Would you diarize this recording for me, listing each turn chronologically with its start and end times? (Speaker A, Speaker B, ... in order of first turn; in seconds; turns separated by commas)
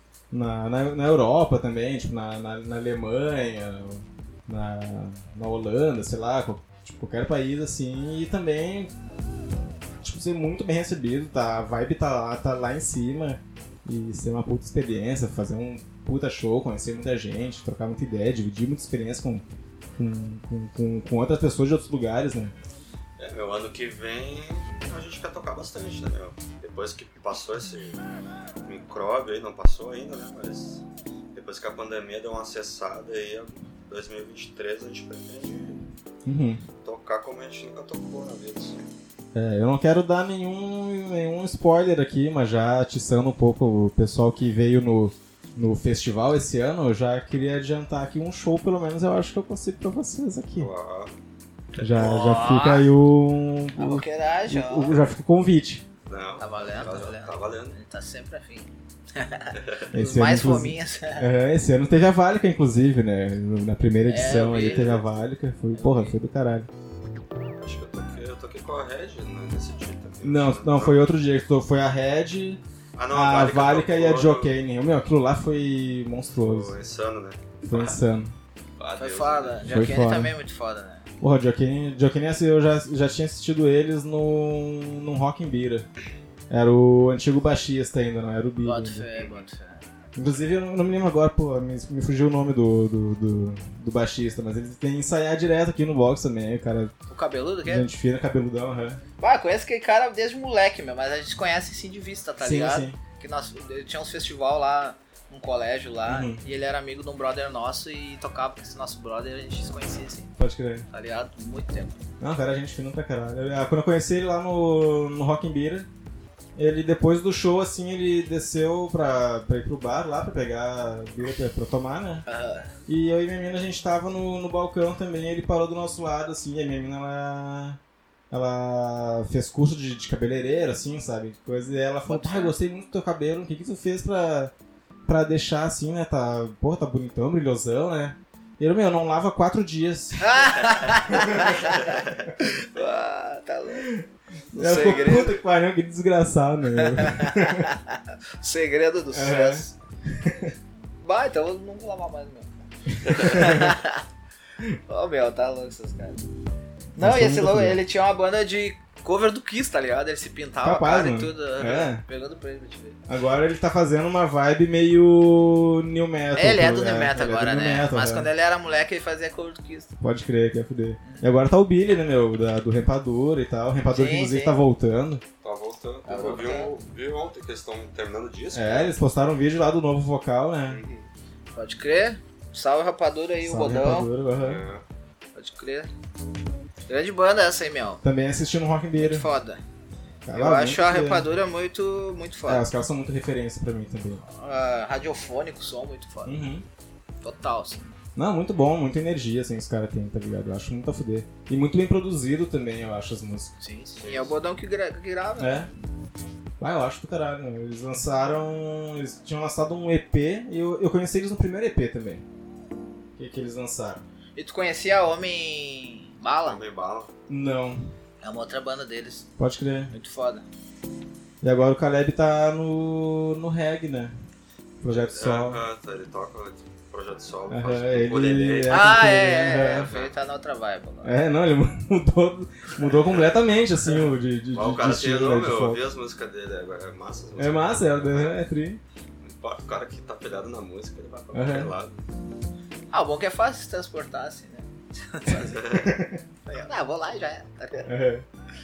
Speaker A: 0.3-8.9, Speaker A: 10.0-19.4, Speaker A: 20.0-22.5, Speaker B: 23.2-28.0, Speaker B: 28.6-35.9, Speaker A: 36.2-36.6, Speaker B: 36.8-38.9, Speaker A: 39.4-50.7, Speaker B: 50.6-51.1, Speaker A: 51.8-55.9, Speaker C: 51.9-52.9, Speaker C: 53.8-55.0, Speaker B: 56.0-57.8, Speaker C: 56.4-61.3, Speaker B: 59.5-59.9, Speaker A: 59.9-66.7, Speaker C: 64.1-64.9, Speaker B: 64.4-65.0, Speaker C: 65.7-66.1, Speaker B: 67.6-71.0, Speaker A: 70.2-76.7, Speaker B: 73.0-74.5, Speaker B: 76.4-77.9, Speaker A: 77.7-78.3, Speaker B: 78.8-79.6, Speaker C: 79.0-81.1, Speaker A: 79.6-80.4, Speaker A: 81.2-85.9, Speaker A: 86.5-89.1, Speaker C: 88.6-89.8, Speaker A: 90.2-96.9, Speaker C: 97.1-97.9, Speaker A: 97.6-99.0, Speaker C: 99.2-110.3, Speaker A: 102.4-103.0, Speaker A: 106.1-106.4, Speaker A: 110.4-110.9, Speaker C: 110.9-112.0, Speaker A: 112.2-115.9, Speaker A: 116.5-122.2, Speaker C: 122.2-122.7, Speaker A: 122.9-127.8, Speaker A: 128.3-134.5, Speaker C: 132.1-132.5, Speaker A: 135.1-141.6, Speaker C: 140.2-143.9, Speaker B: 141.8-142.1, Speaker A: 143.8-147.7, Speaker C: 144.6-145.4, Speaker C: 146.8-149.7, Speaker A: 149.1-150.5, Speaker C: 151.0-154.0, Speaker A: 153.0-153.8, Speaker C: 154.9-156.2, Speaker A: 156.9-157.8, Speaker C: 157.0-163.0, Speaker A: 160.6-162.0, Speaker A: 163.1-168.3, Speaker C: 166.3-169.9, Speaker A: 170.0-175.2, Speaker C: 171.0-171.3, Speaker C: 173.9-174.6, Speaker B: 175.4-178.9, Speaker C: 176.1-176.7, Speaker A: 178.5-180.8, Speaker B: 180.7-181.1, Speaker C: 181.5-184.1, Speaker A: 183.4-184.6, Speaker B: 184.4-184.8, Speaker C: 185.3-185.9, Speaker C: 186.9-188.0, Speaker A: 188.0-189.3, Speaker C: 188.9-189.6, Speaker A: 190.2-191.3, Speaker C: 190.3-192.6, Speaker A: 192.4-194.2, Speaker C: 194.3-196.4, Speaker A: 196.2-196.6, Speaker C: 197.2-197.9, Speaker A: 198.2-203.5, Speaker C: 203.6-205.6, Speaker B: 204.0-204.3, Speaker A: 205.4-205.7, Speaker A: 206.6-212.2, Speaker A: 213.2-214.0, Speaker C: 214.4-216.6, Speaker B: 216.4-217.1, Speaker A: 217.3-217.9, Speaker C: 218.2-219.2, Speaker A: 219.4-219.9, Speaker C: 219.9-220.4, Speaker A: 221.4-224.1, Speaker A: 224.8-225.6, Speaker B: 224.9-230.2, Speaker A: 227.5-229.9, Speaker C: 228.7-231.1, Speaker A: 231.0-235.8, Speaker B: 234.5-238.3, Speaker A: 237.4-238.8, Speaker B: 239.2-242.0, Speaker A: 241.3-241.7, Speaker C: 242.9-245.7, Speaker B: 245.5-245.9, Speaker A: 245.8-246.2, Speaker C: 246.4-247.9, Speaker A: 247.9-248.2